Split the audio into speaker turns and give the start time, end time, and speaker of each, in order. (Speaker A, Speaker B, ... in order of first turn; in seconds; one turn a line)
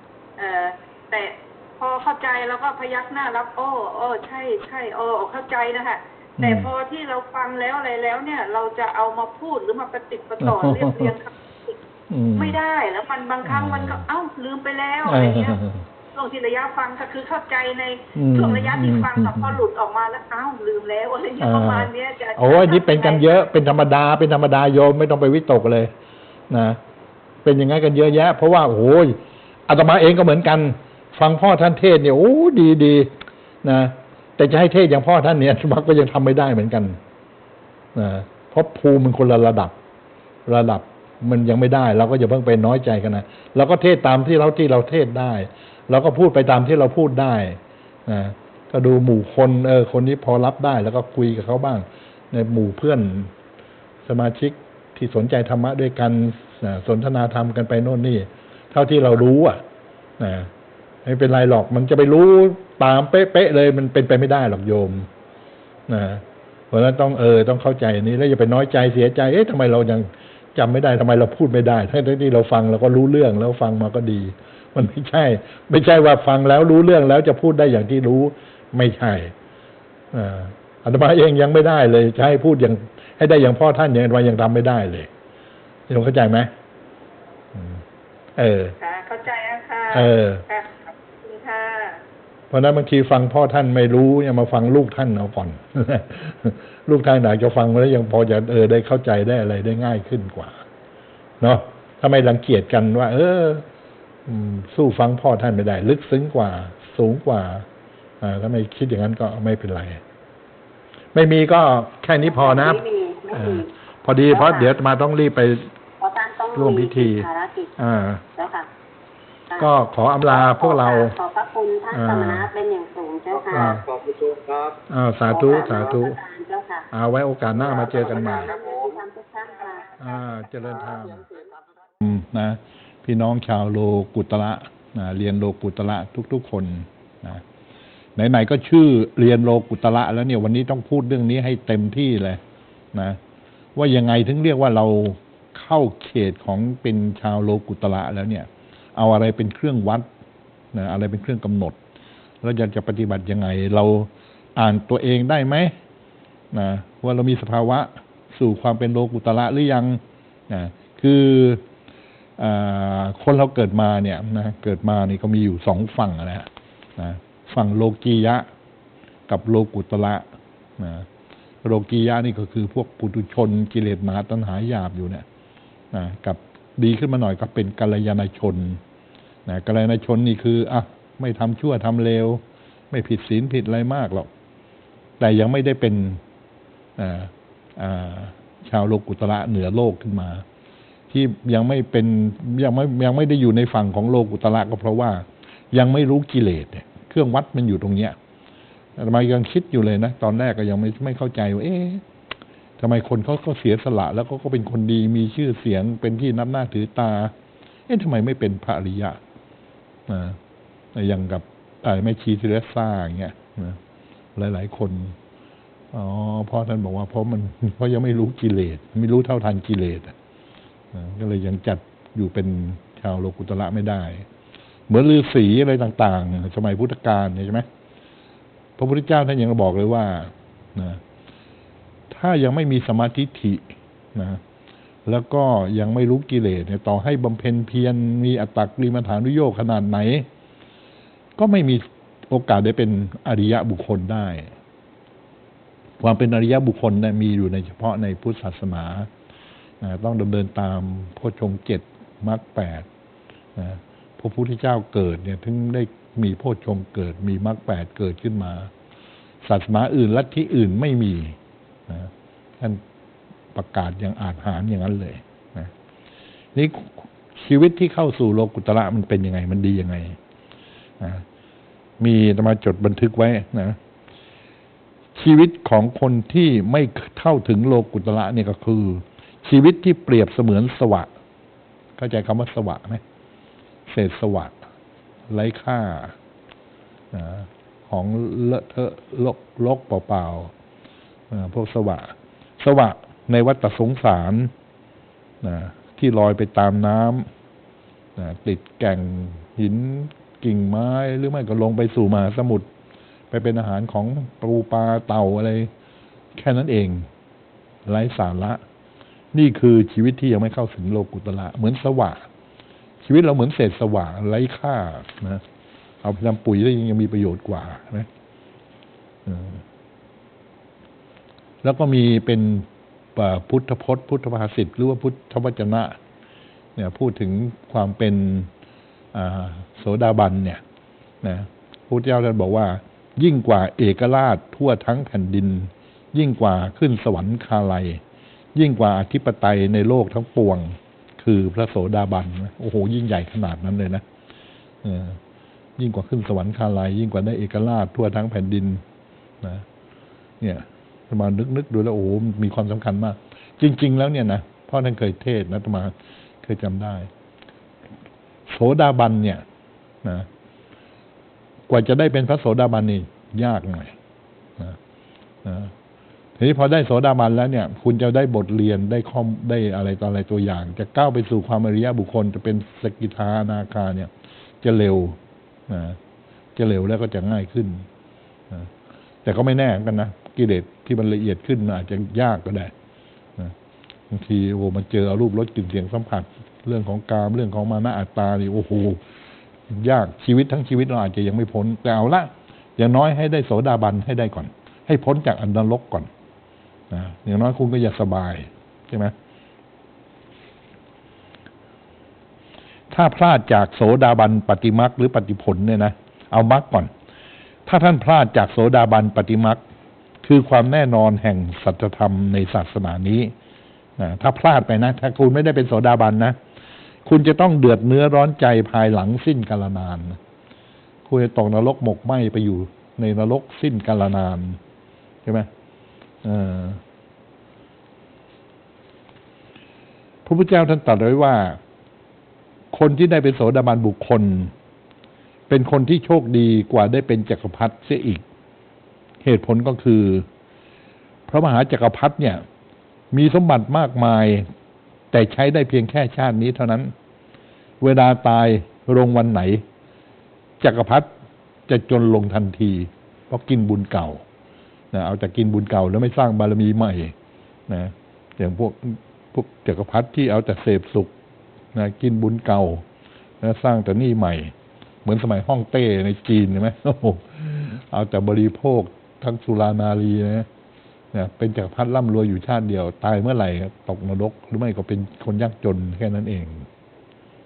Speaker A: 0.4-11.8
Speaker B: 6.4-6.7
Speaker B: 10.4-11.1
Speaker B: 12.1-12.6
Speaker A: 12.3-15.6
Speaker B: 13.4-14.0
Speaker B: 15.1-15.8
Speaker A: 16.1-23.5
Speaker B: 18.1-19.6
Speaker B: 21.4-25.9
Speaker B: 26.5-26.8
Speaker B: 27.4-33.1
Speaker B: 33.6-37.0
Speaker B: 37.9-39.7
Speaker B: 40.5-53.3
Speaker B: 54.0-59.6
Speaker B: 60.2-60.5
Speaker B: 61.0-65.1
Speaker B: 65.9-79.3
Speaker B: 80.1-85.1
Speaker B: 85.9-86.5
Speaker B: 87.5-87.8
Speaker B: 88.4-88.7
Speaker A: 88.8-92.0
Speaker B: 89.9-90.4
Speaker B: 92.5-100.6
Speaker B: 101.4-103.6
Speaker B: 104.3-107.7
Speaker B: 108.2-110.0
Speaker B: 111.1-115.7
Speaker C: 112.2-113.7
Speaker C: 114.3-114.7
Speaker C: 116.0-117.7
Speaker B: 116.5-117.3
Speaker B: 117.8-118.2
Speaker C: 118.3-118.7
Speaker B: 119.6-121.2
Speaker C: 120.2-123.8
Speaker B: 121.9-122.5
Speaker D: 123.3-124.8
Speaker B: 123.5-123.8
Speaker B: 124.9-126.2
Speaker C: 125.3-126.9
Speaker D: 125.6-125.9
Speaker B: 126.9-128.5
Speaker D: 127.5-129.0
Speaker C: 128.0-129.9
Speaker B: 130.0-131.2
Speaker D: 130.6-131.9
Speaker B: 132.0-137.4
Speaker B: 138.2-142.4
Speaker B: 142.9-143.2
Speaker B: 143.8-150.1
Speaker B: 150.7-151.8
Speaker B: 152.4-155.7
Speaker B: 156.5-161.6
Speaker B: 162.4-168.5
Speaker B: 169.3-170.3
Speaker B: 170.8-171.1
Speaker B: 171.6-175.2
Speaker B: 175.9-178.8
Speaker B: 179.4-184.3
Speaker B: 185.2-186.2
Speaker B: 187.0-190.4
Speaker B: 191.1-198.2
Speaker B: 199.0-202.0
Speaker B: 202.8-207.3
Speaker B: 207.9-209.2
Speaker B: 210.1-210.4
Speaker B: 210.9-213.8
Speaker B: 214.3-215.2
Speaker B: 215.9-220.1
Speaker B: 220.9-224.2
Speaker B: 224.9-227.7
Speaker B: 228.8-231.0
Speaker B: 232.1-234.4
Speaker B: 235.1-240.3
Speaker B: 241.4-244.5
Speaker B: 246.0-249.1
Speaker B: 249.8-252.8
Speaker B: 253.6-258.7
Speaker B: 259.4-261.4
Speaker B: 261.9-262.8
Speaker B: 263.5-265.7
Speaker B: 266.5-270.2
Speaker B: 271.0-271.2
Speaker B: 272.0-273.8
Speaker B: 275.1-281.1
Speaker B: 282.0-283.0
Speaker B: 283.9-284.6
Speaker B: 285.3-286.1
Speaker B: 287.1-290.5
Speaker B: 291.3-294.5
Speaker B: 295.4-297.3
Speaker B: 298.2-302.7
Speaker B: 303.3-305.7
Speaker B: 306.3-307.1
Speaker B: 307.9-308.6
Speaker B: 309.3-312.2
Speaker B: 313.0-315.4
Speaker B: 316.0-318.1
Speaker B: 319.2-319.6
Speaker B: 321.6-326.0
Speaker B: 326.8-328.5
Speaker B: 329.1-330.6
Speaker B: 331.2-338.0
Speaker B: 338.5-344.0
Speaker B: 344.8-345.2
Speaker B: 345.8-348.8
Speaker B: 350.4-357.1
Speaker B: 358.5-359.4
Speaker B: 360.0-360.3
Speaker B: 361.7-363.9
Speaker B: 365.4-365.7
Speaker B: 366.4-375.2
Speaker B: 375.7-376.0
Speaker B: 376.6-377.9
Speaker B: 379.2-382.7
Speaker B: 384.1-389.0
Speaker B: 389.7-396.1
Speaker B: 396.9-399.1
Speaker B: 402.9-406.9
Speaker B: 407.6-409.6
Speaker B: 410.2-413.3
Speaker B: 414.0-416.4
Speaker B: 417.0-420.2
Speaker B: 421.1-424.6
Speaker B: 426.2-426.8
Speaker B: 430.2-431.6
Speaker B: 432.7-434.5
Speaker B: 435.5-438.2
Speaker B: 439.2-440.3
Speaker B: 441.3-442.4
Speaker B: 443.1-444.5
Speaker B: 445.1-446.9
Speaker B: 447.8-449.6
Speaker B: 450.6-451.1
Speaker B: 451.7-454.2
Speaker B: 454.9-457.1
Speaker B: 457.7-461.1
Speaker B: 461.7-462.8
Speaker B: 463.4-464.5
Speaker B: 465.0-470.5
Speaker B: 471.1-476.7